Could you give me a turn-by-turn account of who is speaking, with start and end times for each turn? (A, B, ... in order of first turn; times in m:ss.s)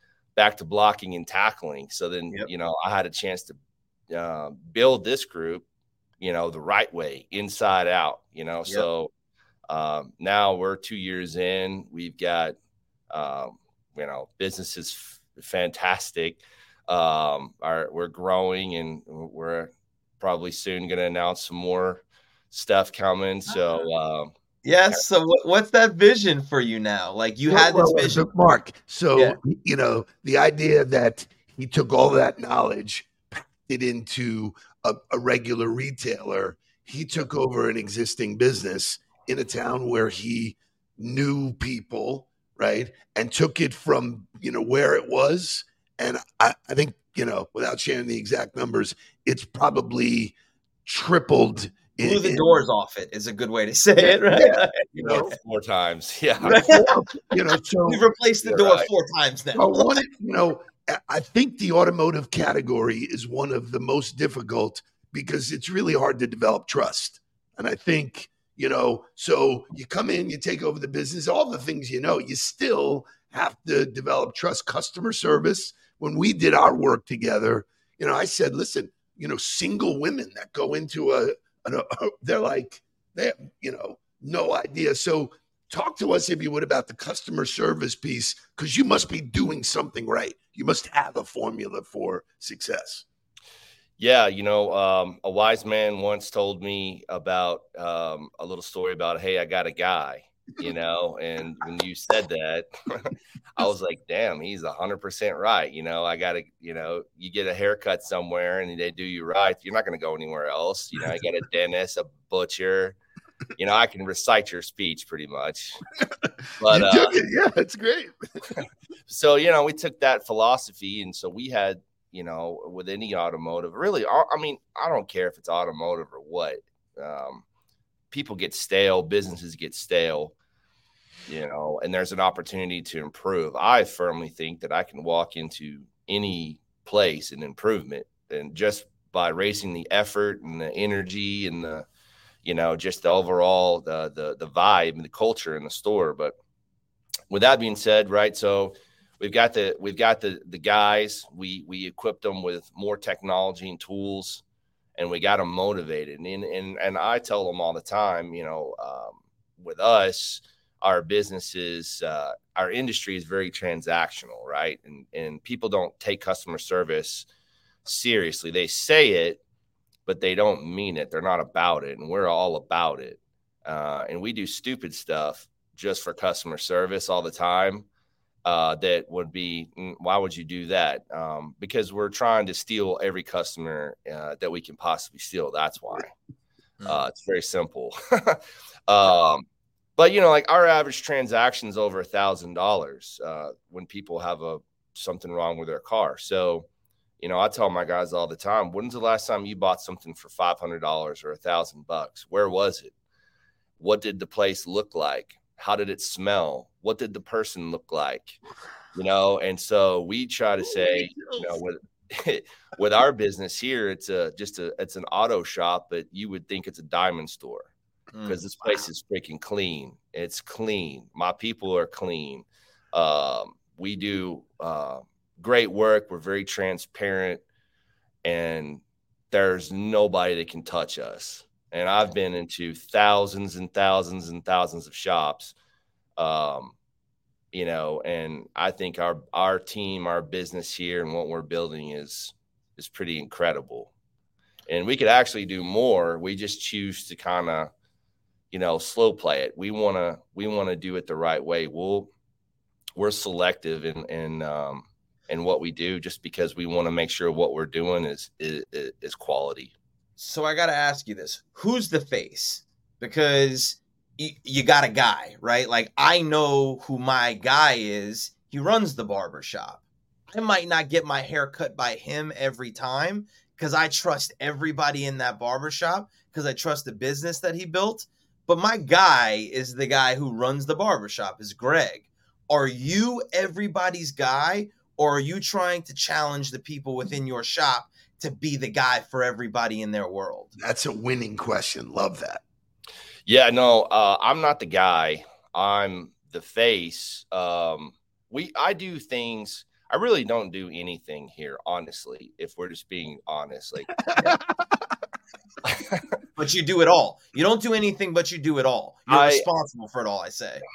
0:00.4-0:03.6 A
0:04.1-0:05.6 A
0:06.2-0:09.1 A
0:09.7-0:12.6 A
0:13.1-0:24.3 A
0:24.6-0:28.2 B
0:27.5-0:52.5 C
0:52.0-0:55.2 B
0:54.1-0:55.3 C
0:54.9-0:56.6 A
0:56.4-0:58.0 C
0:56.4-0:56.9 B
0:57.8-1:00.0 B
0:58.4-0:58.9 A
0:59.5-1:33.0 C
1:34.0-1:53.0 A
1:53.6-1:55.8 A
1:56.6-1:57.2 A
1:56.6-1:58.2 C
1:59.1-2:07.4 A
2:08.1-2:10.3 A
2:11.3-2:21.8 A
2:22.4-2:26.4 A
2:27.3-2:34.4 A
2:35.0-2:47.2 A
2:47.8-2:49.4 A
2:50.0-2:57.9 A
2:58.4-3:06.1 A
3:06.8-3:09.4 A
3:10.0-3:16.7 A
3:17.2-3:22.9 A
3:23.8-3:28.4 A
3:28.9-3:37.7 A
3:30.6-3:31.6 C
3:38.1-3:38.4 B
3:38.3-3:47.4 A
3:48.2-3:55.5 A
3:56.2-3:56.7 A
3:57.5-4:03.9 A
4:04.7-4:07.7 A
4:08.5-4:12.1 A
4:13.0-4:19.7 A
4:20.2-4:50.5 B
4:50.6-4:52.4 C
4:53.3-5:04.1 A
5:05.6-5:06.0 A
5:06.4-5:10.6 B
5:09.1-5:09.4 A